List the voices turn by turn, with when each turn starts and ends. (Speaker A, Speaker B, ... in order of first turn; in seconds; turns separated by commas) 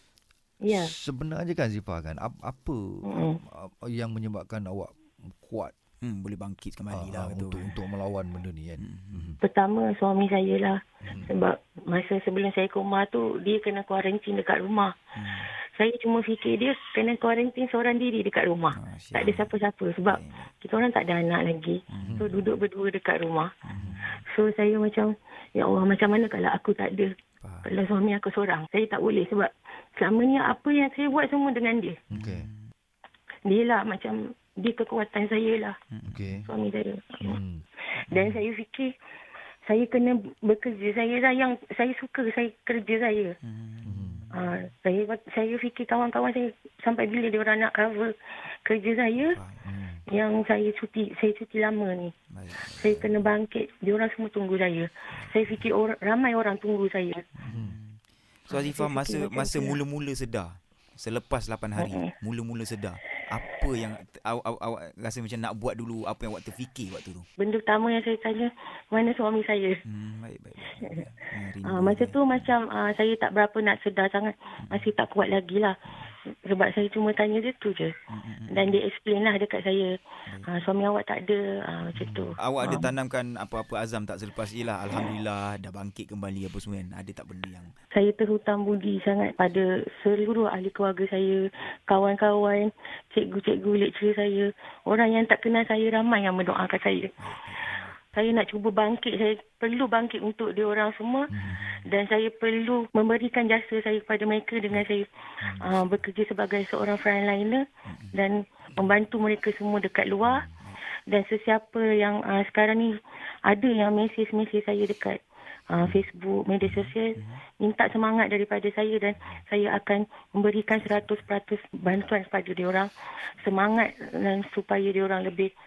Speaker A: 0.6-0.9, Speaker B: 0.7-5.7, Speaker A: 3.0-3.4, Speaker C: 6.0-7.8, Speaker B: 6.9-9.4, Speaker C: 8.8-9.3, Speaker A: 9.4-14.9, Speaker B: 11.0-11.3, Speaker C: 15.2-15.5, Speaker A: 15.8-23.5, Speaker C: 18.7-19.5, Speaker C: 20.1-20.5, Speaker C: 21.9-22.5, Speaker B: 22.0-22.3, Speaker C: 23.6-24.2, Speaker A: 24.2-32.0, Speaker C: 27.4-27.7, Speaker B: 32.1-32.5, Speaker C: 32.1-32.7, Speaker A: 33.5-35.8, Speaker C: 35.9-36.5, Speaker B: 36.0-36.5, Speaker A: 36.5-37.4, Speaker B: 37.2-37.6, Speaker C: 38.0-38.4, Speaker A: 38.1-38.9, Speaker A: 39.6-43.4, Speaker C: 43.4-44.3, Speaker B: 43.8-44.3, Speaker A: 44.3-48.1, Speaker A: 48.6-49.4, Speaker C: 49.2-49.6, Speaker B: 49.6-50.0, Speaker A: 50.1-52.1, Speaker C: 52.3-53.3, Speaker A: 52.7-57.3, Speaker C: 57.4-67.2, Speaker B: 57.5-57.8, Speaker A: 58.5-59.8, Speaker A: 61.8-62.1, Speaker A: 67.4-69.8, Speaker C: 69.8-72.5, Speaker A: 71.6-75.8, Speaker C: 74.6-74.9, Speaker A: 76.5-77.9, Speaker C: 78.1-78.8, Speaker A: 78.5-79.9, Speaker A: 80.5-82.9, Speaker C: 82.0-87.7, Speaker A: 87.9-97.1, Speaker C: 97.2-98.0, Speaker A: 98.1-101.3, Speaker B: 101.3-101.6, Speaker C: 101.4-101.9, Speaker A: 101.8-110.4, Speaker B: 105.4-106.0, Speaker C: 107.8-108.2, Speaker B: 110.2-110.5, Speaker A: 111.1-112.9, Speaker A: 113.5-125.5, Speaker C: 116.6-117.4, Speaker C: 120.7-121.1